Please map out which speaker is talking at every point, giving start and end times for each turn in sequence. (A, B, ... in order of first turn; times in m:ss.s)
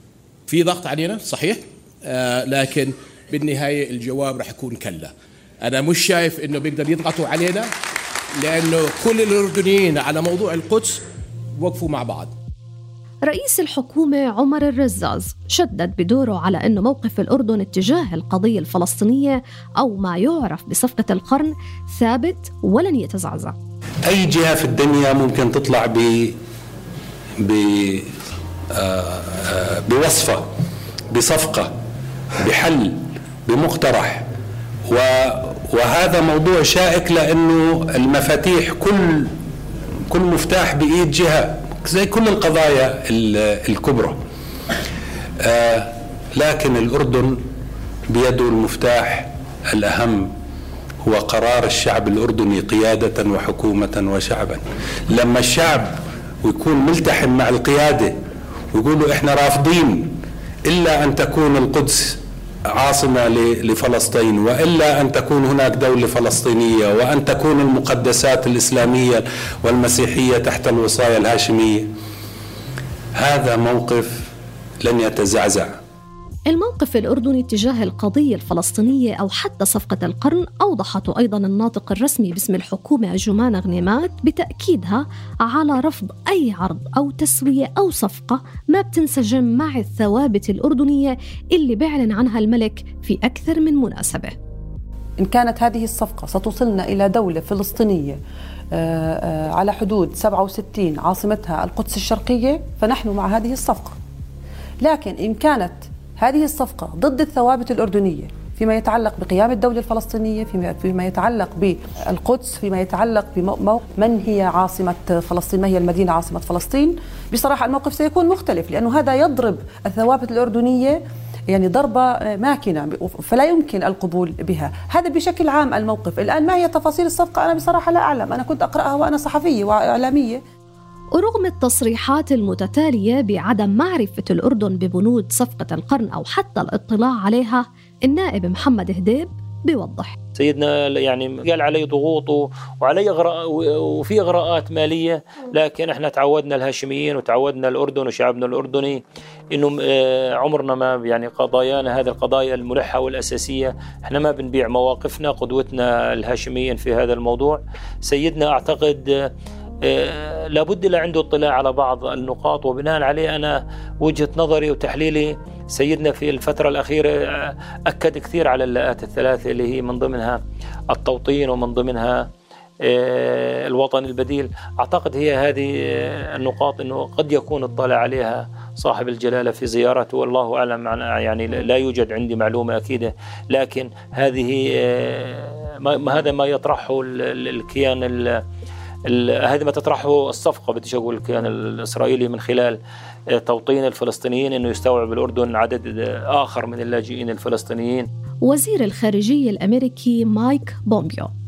0:00.5-0:07.7 A
0:08.4-0:11.0 A
0:11.6-0:12.3 A
0:13.3-0:23.6 B
0:24.1-0:26.4 C
0:27.4-0:28.1 C
0:28.8-0:30.5 C
0:31.1-0:31.8 C
0:32.4-0:34.3 C
0:34.9-0:39.3 C
0:40.1-0:44.2 C
0:45.4-0:47.4 C
0:48.1-0:50.3 C
0:51.0-0:58.2 C
0:58.7-1:00.1 C
1:00.7-1:02.2 C
1:02.7-1:11.9 C
1:13.2-1:14.3 C
1:14.8-1:15.8 C
1:16.5-1:34.4 B
1:35.2-1:38.2 D
1:38.7-1:44.0 D
1:44.8-2:10.4 D
2:11.2-2:20.1 B
2:20.4-2:29.0 E
2:29.5-2:39.3 E
2:39.8-2:50.4 E
2:50.9-2:52.3 E
2:52.8-3:08.4 E
3:09.1-3:12.8 E
3:13.4-3:18.1 E
3:18.5-3:21.3 B